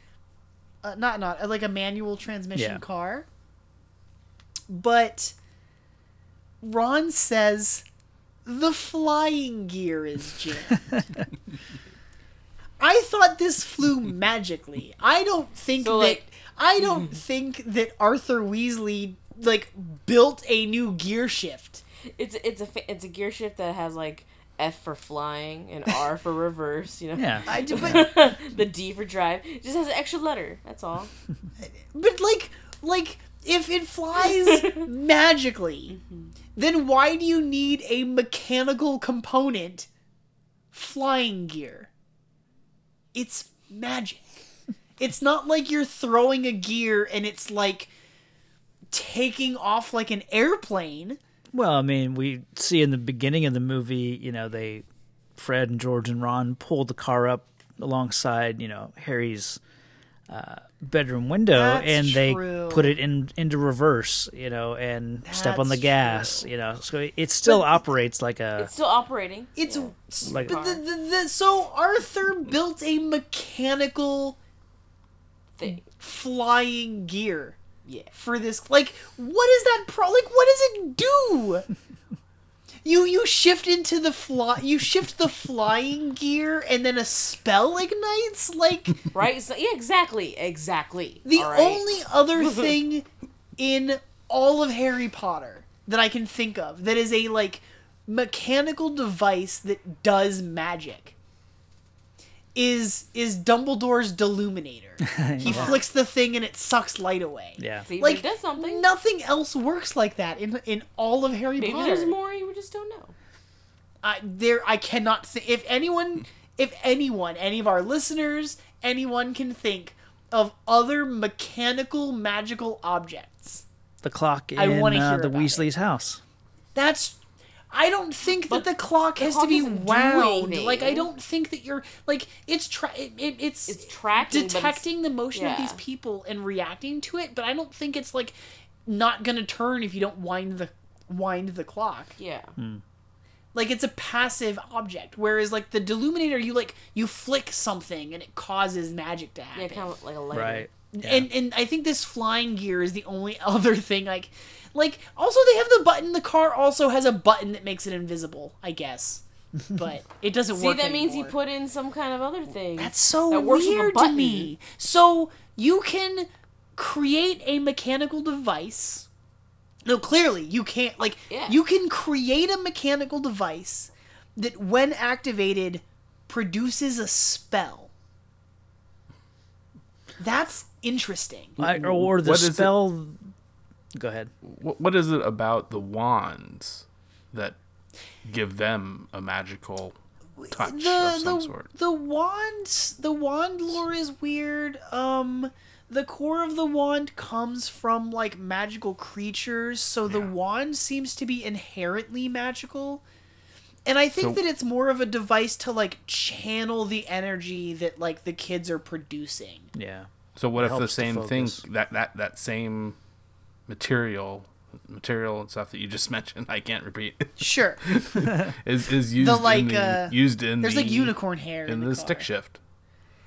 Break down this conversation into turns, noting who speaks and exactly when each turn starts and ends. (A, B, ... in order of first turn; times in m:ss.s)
0:00.8-0:03.3 A
0:02.5-0:02.8 B
0:04.7-0:05.4 A
0:06.6-0:07.8 A
0:08.5-0:11.3 A
0:12.8-0:21.8 A
0:15.8-0:16.2 C
0:22.2-0:31.1 C
0:27.2-0:28.0 B
0:27.5-0:28.1 A
0:31.6-0:36.0 A
0:35.9-0:36.3 C
0:36.6-0:39.9 A
0:40.7-0:41.9 A
0:43.1-0:44.4 A
0:45.0-0:47.9 A
0:48.9-0:51.2 A
0:51.5-0:54.8 B
0:55.4-0:59.6 B
1:00.3-1:08.7 B
1:01.5-1:03.0 A
1:05.3-1:06.5 A
1:07.4-1:07.8 A
1:08.6-1:10.8 C
1:09.6-1:14.4 A
1:10.3-1:10.6 B
1:15.6-1:15.8 C
1:15.6-1:17.6 A
1:17.8-1:18.1 C
1:18.1-1:21.7 A
1:22.8-1:29.1 A
1:29.1-1:32.7 C
1:31.2-1:41.1 A
1:42.6-1:52.2 A
1:45.0-1:45.8 B
1:45.4-1:45.8 C
1:47.6-1:47.8 B
1:47.8-1:48.9 C
1:51.6-1:53.1 C
1:54.0-2:03.6 A
2:04.0-2:06.2 B
2:04.6-2:05.7 A
2:06.8-2:07.2 A
2:07.7-2:22.2 A
2:08.5-2:11.1 C
2:13.7-2:15.8 C
2:22.2-2:22.6 C
2:22.6-2:22.8 B
2:23.5-2:29.9 A
2:29.5-2:30.7 C
2:30.3-2:31.3 B
2:30.9-2:41.4 A
2:40.5-2:44.5 C
2:42.8-2:49.1 A
2:49.9-2:57.9 A
2:51.3-2:51.6 C
3:00.2-3:01.6 A
3:01.6-3:03.3 B
3:01.6-3:02.8 D
3:04.0-3:04.3 B
3:04.4-3:07.6 D
3:08.2-3:10.0 D
3:10.4-3:23.0 A
3:10.5-3:11.7 D
3:20.1-3:20.3 D
3:23.9-3:29.7 A
3:29.8-3:31.6 B
3:30.4-3:33.0 D
3:33.7-3:42.6 D
3:37.4-3:37.8 A
3:39.2-3:42.3 A